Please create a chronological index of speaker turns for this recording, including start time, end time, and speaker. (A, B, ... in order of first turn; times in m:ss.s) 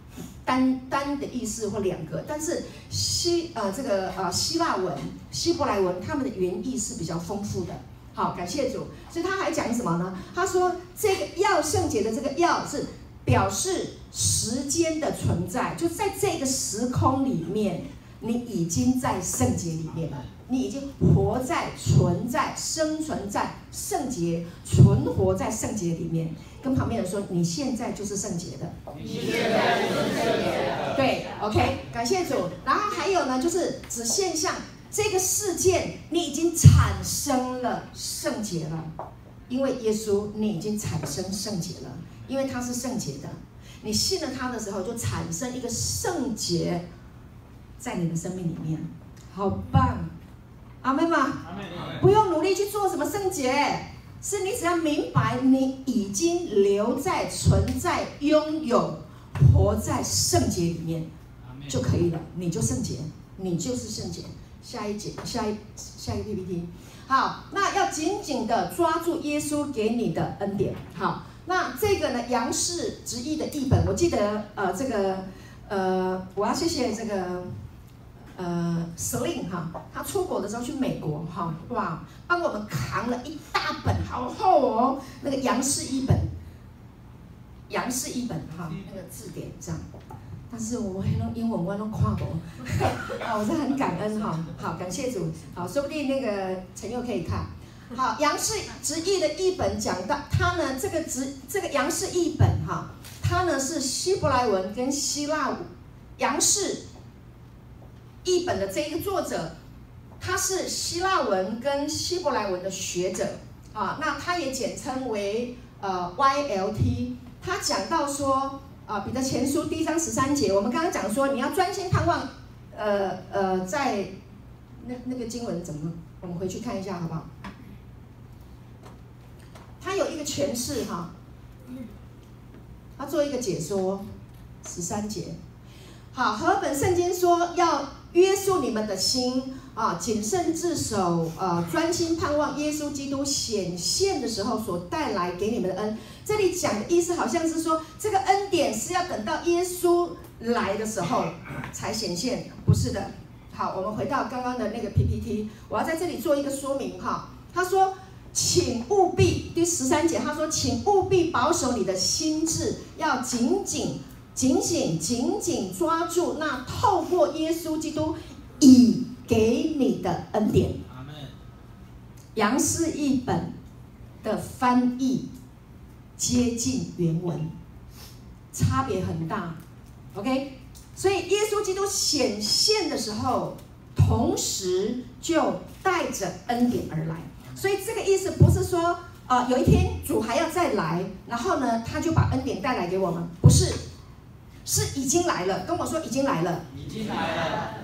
0:00.4-0:28.7 A
0:28.9-0:30.6 B
0:30.9-0:38.9 A
0:39.5-0:46.8 A
0:47.8-0:50.1 A
0:50.8-1:01.1 A
0:51.6-0:52.0 B
1:01.4-1:01.8 B
1:01.7-1:17.5 A
1:18.3-1:26.3 A
1:27.7-1:29.8 A
1:30.5-1:45.7 A
1:33.7-1:34.6 B
1:46.2-1:46.8 A
1:48.2-1:49.5 A
1:50.2-2:04.1 A
2:04.8-2:07.3 A
2:09.8-2:11.1 A
2:13.0-2:14.0 A
2:14.6-2:15.4 A
2:16.1-2:50.8 A
2:50.8-2:51.3 B
2:52.4-2:53.5 A
2:54.2-2:55.2 A
2:56.2-2:57.5 A
2:58.5-2:59.6 A
3:00.1-3:13.8 A
3:07.4-3:07.6 B
3:14.6-3:16.6 A
3:16.9-3:17.6 B